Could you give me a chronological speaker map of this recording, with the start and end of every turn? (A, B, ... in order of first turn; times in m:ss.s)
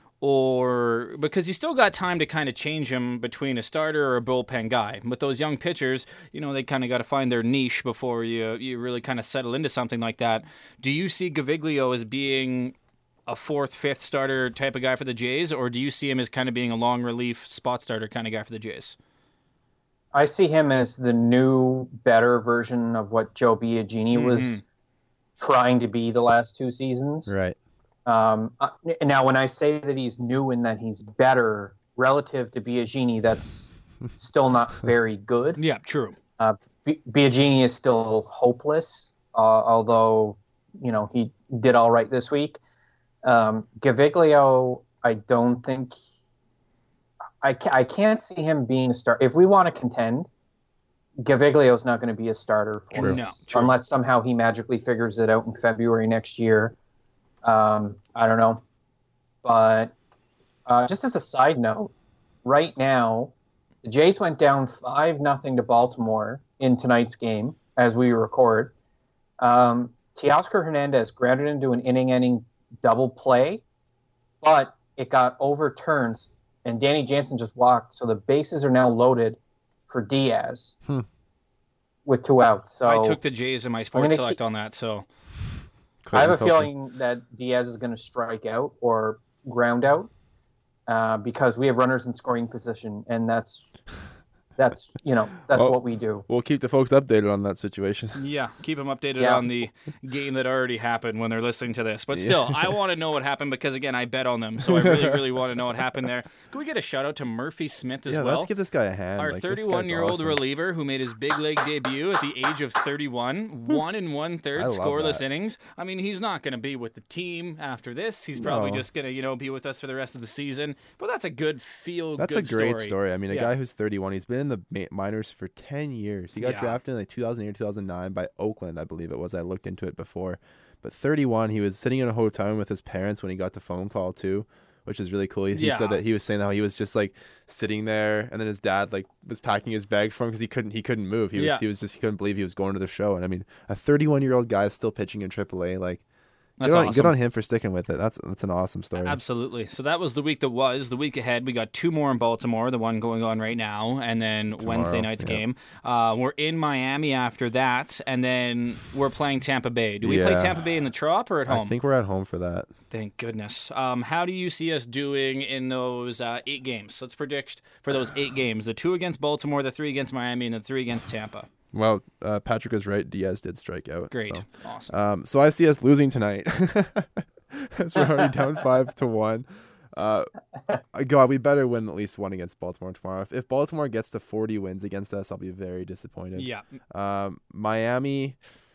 0:00.2-0:12.8 A
0:13.3-0:19.0 A
0:20.1-0:24.6 B
0:24.1-0:24.6 A
0:25.4-0:27.3 B
0:27.3-0:27.6 C
0:28.0-0:35.6 B
0:35.6-0:36.2 A
0:36.4-0:42.6 B
0:43.2-0:45.9 B
0:47.4-0:50.3 B
0:51.2-0:56.8 B
0:52.9-0:53.7 A
0:57.4-0:58.6 B
0:59.4-0:59.9 B
1:00.6-1:01.9 B
1:02.4-1:08.7 B
1:09.4-1:13.6 B
1:14.4-1:20.8 B
1:22.0-1:23.2 B
1:22.8-1:25.1 A
1:23.9-1:24.4 B
1:26.0-1:26.7 C
1:26.1-1:30.1 B
1:30.9-1:33.7 B
1:34.6-1:36.2 B
1:35.5-1:38.2 C
1:38.1-1:48.5 A
1:39.2-1:39.5 B
1:42.1-1:42.8 C
1:44.7-1:45.2 C
1:48.1-1:50.4 C
1:49.2-2:03.5 A
1:54.6-1:55.2 C
1:58.4-1:58.8 C
2:02.2-2:26.0 C
2:06.4-2:06.8 A
2:15.5-2:16.0 A
2:21.3-2:21.6 A
2:26.6-2:27.1 A
2:26.6-2:29.2 C
2:29.0-2:41.7 A
2:34.6-2:35.4 C
2:40.0-2:40.7 C
2:41.5-2:42.7 C
2:42.9-2:51.5 A
2:51.7-3:00.3 C
2:54.1-2:54.9 A
3:00.9-3:08.4 C
3:06.4-3:06.7 A